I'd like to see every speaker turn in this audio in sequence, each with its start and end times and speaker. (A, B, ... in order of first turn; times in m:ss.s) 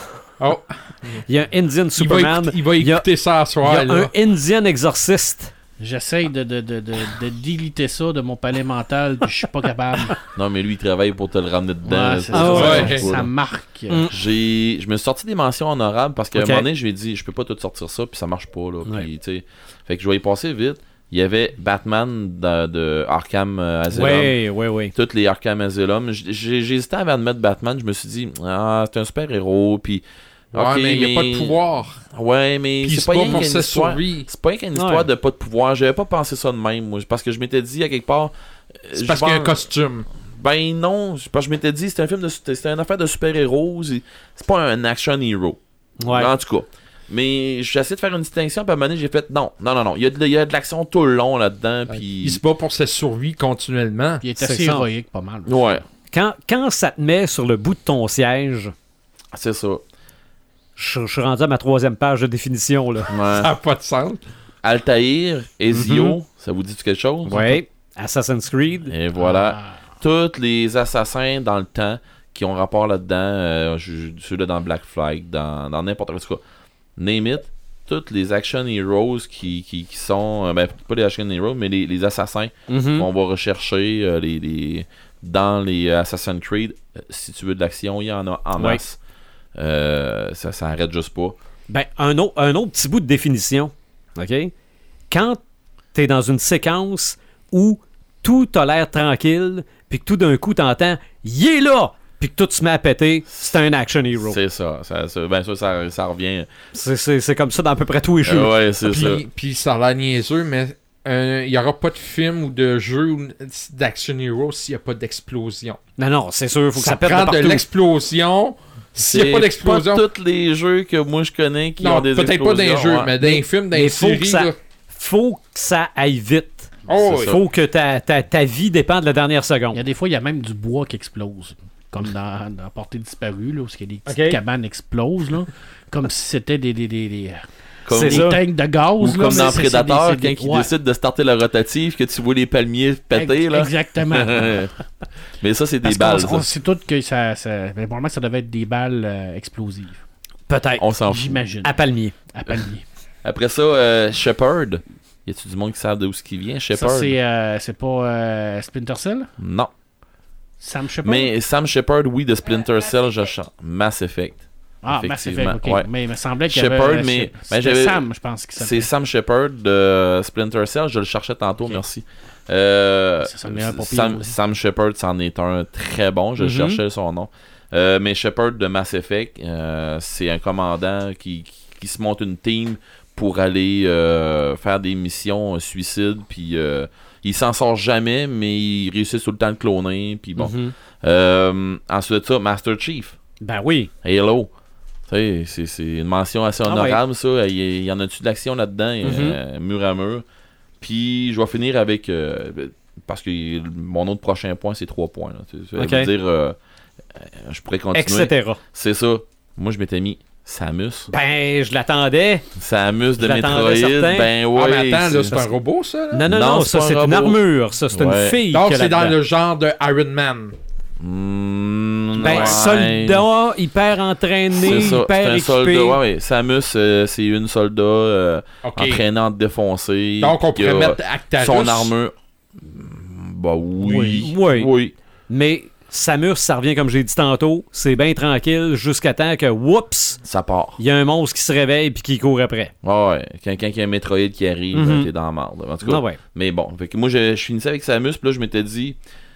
0:00.4-0:01.2 A
0:01.3-0:03.1 B
0:02.0-0:04.1 A
0:03.6-0:05.5 B
0:05.8-0:10.3 C
0:10.3-0:13.3 D
0:11.8-0:14.2 C
0:12.3-0:12.9 B
0:12.5-0:13.1 A
0:14.1-0:24.4 D
0:16.3-0:16.7 B
0:23.9-0:24.9 B
0:24.9-0:31.6 D
0:30.5-0:32.0 A
0:32.1-0:39.6 D
0:32.8-0:34.3 A
0:34.8-0:35.1 B
0:38.9-0:40.1 A
0:40.3-0:52.4 D
0:46.0-0:46.3 B
0:51.9-0:54.2 A
0:54.2-0:55.6 C
0:54.4-0:54.8 B
0:55.5-0:55.8 D
0:56.1-0:58.7 B
0:59.3-0:59.8 D
1:00.8-1:03.1 B
1:03.1-1:03.5 D
1:03.3-1:04.2 A
1:04.6-1:07.6 D
1:05.7-1:06.2 B
1:07.2-1:08.9 B
1:08.9-1:16.4 D
1:09.2-1:09.6 C
1:17.0-1:29.0 D
1:22.7-1:23.1 B
1:29.6-1:31.4 D
1:31.7-1:34.5 B
1:35.1-1:35.4 B
1:35.9-1:44.4 B
1:44.2-1:46.5 D
1:46.7-1:48.6 B
1:48.2-1:49.2 D
1:48.8-1:55.8 A
1:56.0-1:57.6 B
1:56.8-2:00.0 A
1:59.0-2:03.2 D
2:01.8-2:04.6 A
2:03.2-2:09.8 B
2:06.9-2:07.4 A
2:06.9-2:07.4 D
2:09.7-2:17.4 C
2:14.1-2:14.4 B
2:17.9-2:18.4 D
2:17.9-2:18.4 B
2:18.0-2:20.7 C
2:19.0-2:24.7 D
2:23.1-2:24.7 C
2:25.4-2:26.5 D
2:25.8-2:30.0 C
2:30.5-2:30.9 B
2:30.8-2:31.4 D
2:31.1-2:31.8 C
2:31.6-2:32.2 B
2:32.3-2:32.8 C
2:33.2-2:37.2 D
2:36.7-2:39.3 C
2:39.4-2:39.7 D
2:40.6-2:41.3 C
2:41.0-2:45.9 D
2:44.8-2:48.9 C
2:46.5-2:48.0 D
2:48.6-3:13.2 D
2:53.2-2:54.4 C
2:56.4-2:56.8 B
3:10.4-3:10.7 B
3:13.4-3:13.9 B
3:14.0-3:14.5 D
3:15.1-3:20.2 D
3:16.7-3:17.0 B
3:19.0-3:19.4 B
3:20.8-3:26.6 D
3:25.8-3:26.1 B
3:27.2-3:31.1 D
3:27.9-3:28.6 B
3:31.1-3:32.5 B
3:32.6-3:35.5 D
3:33.2-3:34.3 B
3:34.5-3:36.2 A
3:36.1-3:39.2 B
3:36.3-3:38.4 D
3:38.5-3:40.6 A
3:41.0-3:43.2 D
3:42.2-3:46.0 B
3:42.2-3:42.6 A
3:44.5-3:54.9 D
3:48.6-3:49.0 A
3:50.2-3:51.9 A
3:53.8-3:54.7 B
3:55.3-4:00.2 B
4:00.2-4:00.8 D
4:00.8-4:02.7 B
4:02.8-4:09.0 D
4:04.7-4:05.1 B
4:05.8-4:06.2 B